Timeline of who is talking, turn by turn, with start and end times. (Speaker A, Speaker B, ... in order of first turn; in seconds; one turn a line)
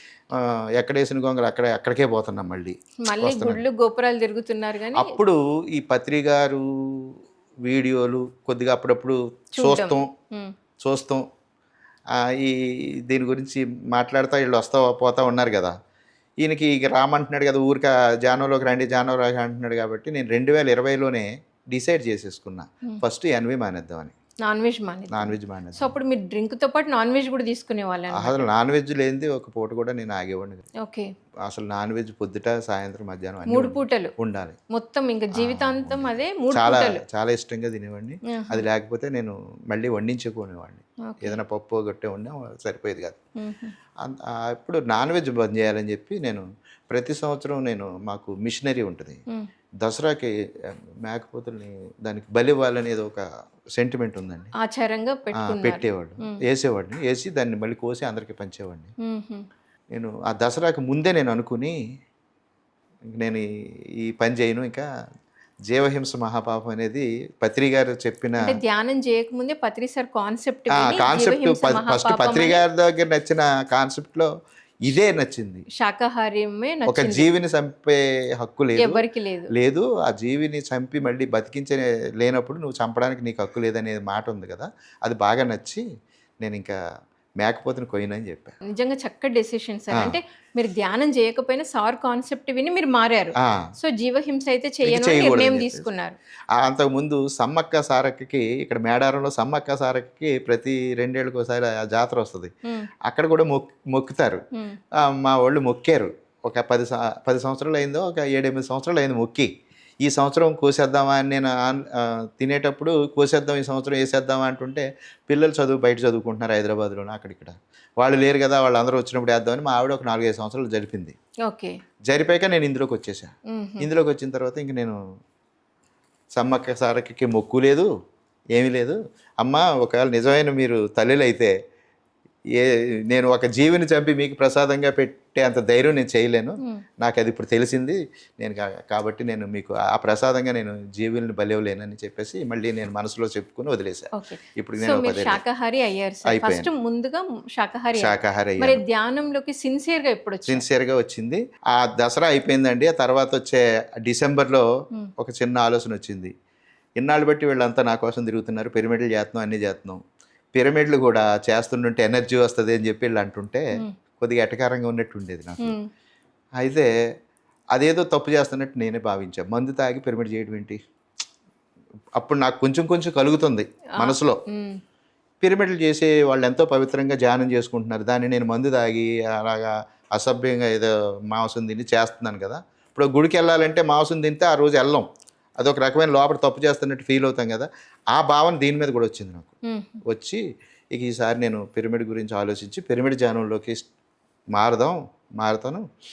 Speaker A: 0.3-3.6
Speaker B: 3.0-5.2
Speaker A: 4.9-10.1
Speaker B: 9.6-10.5
Speaker A: 10.8-11.2
Speaker A: 12.2-15.7
Speaker A: 16.4-24.1
Speaker B: 24.4-28.5
Speaker A: 25.1-25.9
Speaker A: 28.1-30.7
Speaker B: 30.8-31.1
Speaker A: 31.4-34.6
Speaker B: 33.5-34.1
Speaker B: 34.7-37.0
Speaker A: 35.3-43.2
Speaker B: 38.2-38.6
Speaker B: 41.0-41.4
Speaker B: 43.4-43.7
Speaker A: 44.0-49.2
Speaker A: 49.8-53.2
Speaker A: 53.8-54.5
Speaker B: 54.5-56.4
Speaker A: 55.4-58.9
Speaker B: 59.0-59.5
Speaker A: 59.9-61.8
Speaker A: 63.1-63.4
Speaker A: 64.0-64.9
Speaker A: 65.7-68.6
Speaker B: 68.4-72.6
Speaker A: 70.7-74.3
Speaker A: 74.8-75.7
Speaker B: 75.7-77.3
Speaker A: 76.8-85.8
Speaker B: 78.8-79.5
Speaker A: 86.4-86.8
Speaker A: 87.4-88.5
Speaker B: 88.6-96.2
Speaker A: 93.4-93.7
Speaker A: 94.8-95.8
Speaker A: 96.5-102.5
Speaker A: 103.0-104.4
Speaker B: 104.5-104.8
Speaker A: 104.9-109.5
Speaker A: 110.0-121.2
Speaker B: 121.5-121.8
Speaker A: 122.1-125.0
Speaker B: 123.5-123.9
Speaker A: 126.3-127.9
Speaker A: 128.5-131.5
Speaker A: 132.5-145.4
Speaker B: 144.1-150.6
Speaker A: 146.2-146.7
Speaker A: 147.9-148.8
Speaker A: 150.4-154.7
Speaker A: 155.2-156.3
Speaker A: 157.0-160.0
Speaker A: 160.5-165.7
Speaker B: 165.6-165.9
Speaker A: 166.6-166.9
Speaker A: 167.7-170.8
Speaker A: 172.2-174.4
Speaker B: 173.9-174.8
Speaker A: 175.4-185.1
Speaker A: 185.6-189.5
Speaker B: 189.7-190.0
Speaker A: 190.1-190.4
Speaker A: 190.9-193.8
Speaker A: 194.5-195.8